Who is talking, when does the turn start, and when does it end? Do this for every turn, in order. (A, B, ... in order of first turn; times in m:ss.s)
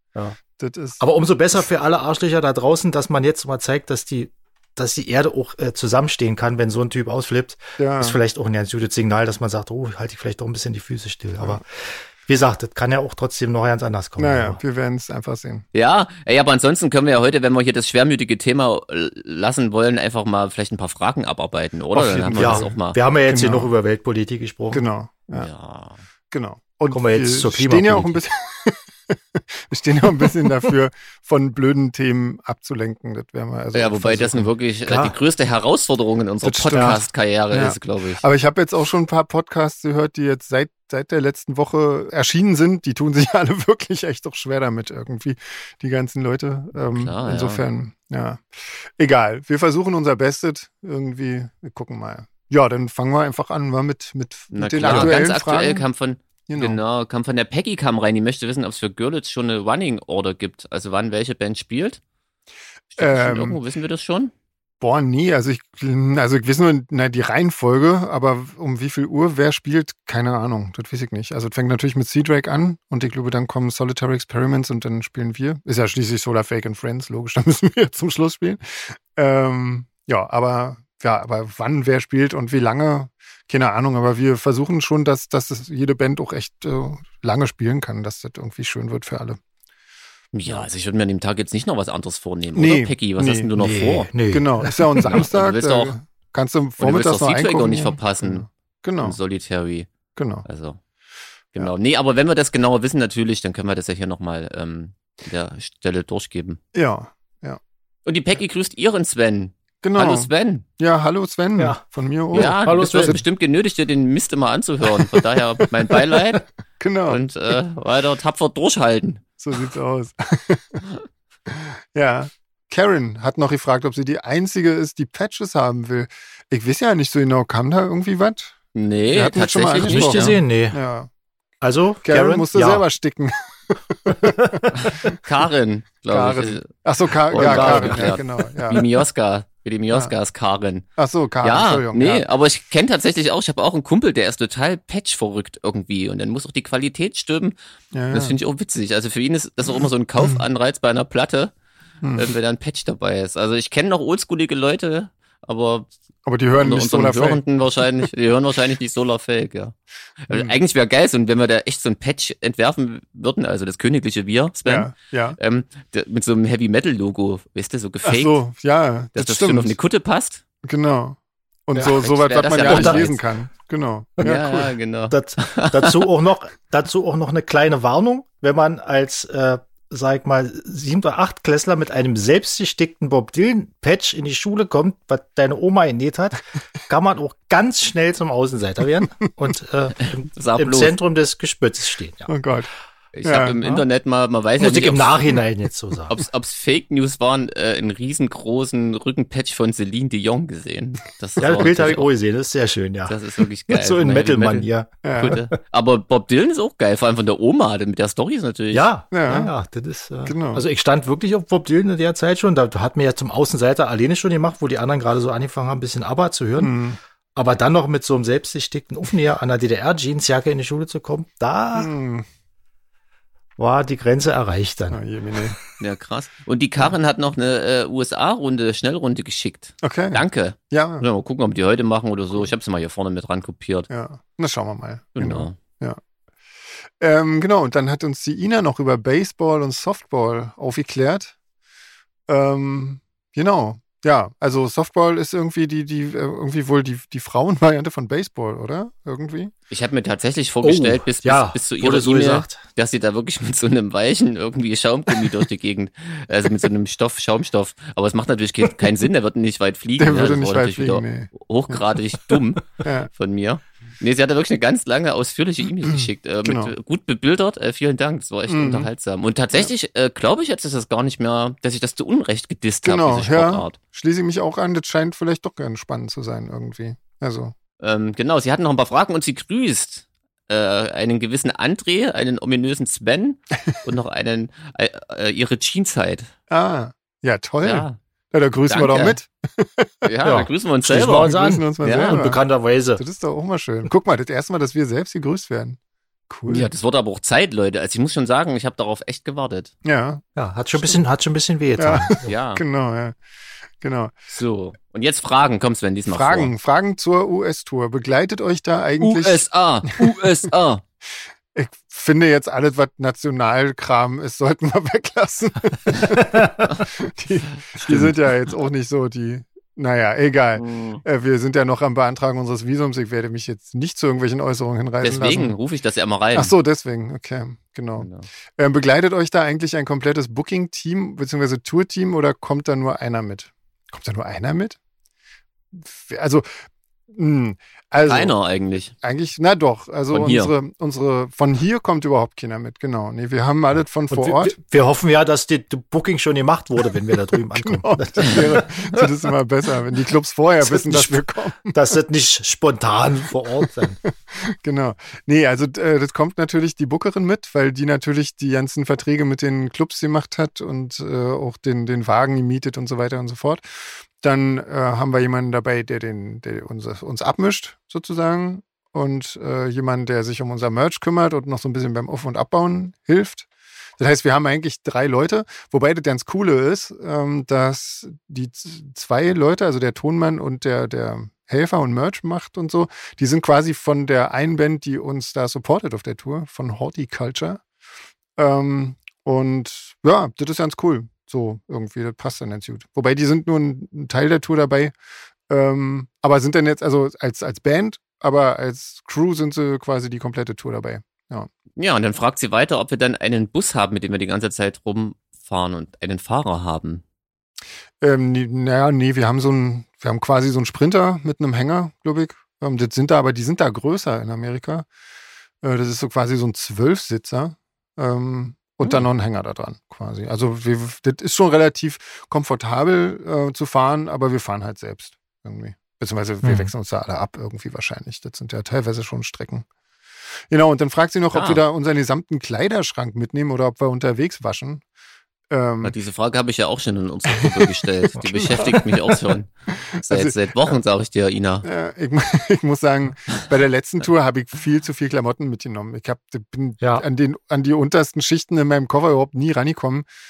0:00.6-0:01.0 A
0:01.0-0:14.6 B
0:07.8-0:08.2 A
0:14.2-0:15.6 A
0:15.7-0:23.0 C
0:21.9-0:22.8 A
0:22.3-0:24.8 B
0:23.3-0:23.7 A
0:24.7-0:25.5 A
0:25.4-0:26.0 C
0:26.3-0:34.5 A
0:26.9-0:28.2 B
0:33.7-0:38.2 C
0:34.9-0:35.1 B
0:36.4-0:55.8 A
0:36.7-0:37.0 B
0:46.8-0:47.6 C
0:54.5-1:02.0 C
0:54.8-0:55.2 B
0:56.5-0:56.8 A
1:02.9-1:04.3 C
1:03.0-1:03.6 A
1:04.8-1:29.4 A
1:30.3-1:34.1 C
1:32.6-1:33.5 A
1:33.6-1:35.2 B
1:34.3-1:39.2 A
1:35.0-1:35.9 C
1:36.8-1:38.4 C
1:39.0-1:39.9 C
1:40.2-1:40.4 A
1:40.4-1:40.8 C
1:41.5-1:46.6 C
1:46.7-1:47.6 A
1:48.0-1:50.6 C
1:49.8-1:53.2 A
1:52.3-1:53.2 B
1:52.3-1:56.4 C
1:54.9-1:56.2 A
1:56.8-1:57.5 A
1:57.1-1:59.3 C
1:59.4-2:00.8 A
2:01.5-2:08.6 A
2:08.7-2:10.4 C
2:09.1-2:11.1 A
2:09.8-2:10.8 B
2:11.6-2:12.8 B
2:12.0-2:15.2 A
2:14.1-2:14.7 B
2:14.7-2:16.7 C
2:16.1-2:18.8 A
2:17.3-2:20.8 C
2:17.3-2:18.1 B
2:21.0-2:22.2 A
2:21.4-2:27.6 C
2:27.9-2:28.4 A
2:28.1-2:31.5 C
2:32.0-2:32.3 A
2:32.1-2:35.9 C
2:36.2-2:37.8 A
2:36.5-2:48.4 C
2:40.3-2:40.6 A
2:44.6-2:45.4 A
2:48.0-2:49.7 A
2:49.1-2:50.4 C
2:50.6-2:54.4 A
2:51.8-2:53.2 C
2:52.6-2:53.1 B
2:54.2-3:12.3 B
2:54.2-2:56.1 C
3:10.0-3:11.0 C
3:12.3-3:12.7 A
3:13.1-3:15.4 C
3:13.2-3:13.6 A
3:14.6-3:16.2 B
3:16.1-3:22.1 C
3:21.4-3:25.5 B
3:23.1-3:28.9 C
3:25.0-3:25.4 A
3:28.7-3:36.8 B
3:29.1-3:29.5 A
3:30.2-3:30.6 A
3:36.6-3:37.0 A
3:37.3-3:41.9 B
3:41.7-3:42.2 A
3:43.6-3:45.5 B
3:44.9-3:45.6 A
3:45.8-3:53.9 C
3:49.8-3:51.0 A
3:53.9-3:56.0 A
3:55.2-3:55.6 C
3:57.0-4:01.3 A
4:02.3-4:09.5 A
4:09.7-4:33.8 C
4:10.6-4:12.6 B
4:20.0-4:21.8 A
4:22.8-4:23.1 A
4:25.8-4:26.7 A
4:28.5-4:28.9 A
4:32.8-4:37.5 A
4:37.8-4:46.3 C
4:46.5-4:50.1 A
4:47.6-4:48.0 C
4:48.7-4:49.2 C
4:50.0-4:52.3 C
4:50.2-4:53.0 B
4:51.1-4:52.4 A
4:53.0-4:55.8 A
4:56.3-4:56.7 A
4:56.5-4:59.7 C
4:59.8-5:00.2 A
5:00.4-5:02.2 B
5:00.7-5:01.0 A
5:01.8-5:03.2 A
5:02.2-5:02.6 C
5:03.8-5:04.1 A
5:04.3-5:06.5 C
5:06.1-5:10.2 A
5:09.0-5:10.8 C
5:11.5-5:25.6 A
5:17.7-5:18.1 C
5:20.5-5:21.0 C
5:25.0-5:26.5 C
5:26.3-5:34.8 A
5:28.0-5:28.3 C
5:35.7-5:38.3 A
5:38.0-5:38.9 C
5:39.0-5:44.6 A
5:40.1-5:40.5 C
5:44.1-5:49.1 B
5:47.5-5:51.8 A
5:50.6-5:54.0 B
5:54.3-6:13.5 A
6:14.0-6:27.6 A
6:28.4-6:34.9 A
6:35.5-6:41.5 A
6:41.8-6:47.0 C
6:48.0-6:54.9 A
6:55.6-7:09.6 A
7:06.4-7:06.7 B
7:10.5-7:14.8 A
7:11.3-7:11.6 C
7:15.5-7:15.9 A
7:15.8-7:21.6 C
7:17.4-7:20.8 A
7:21.6-7:30.1 A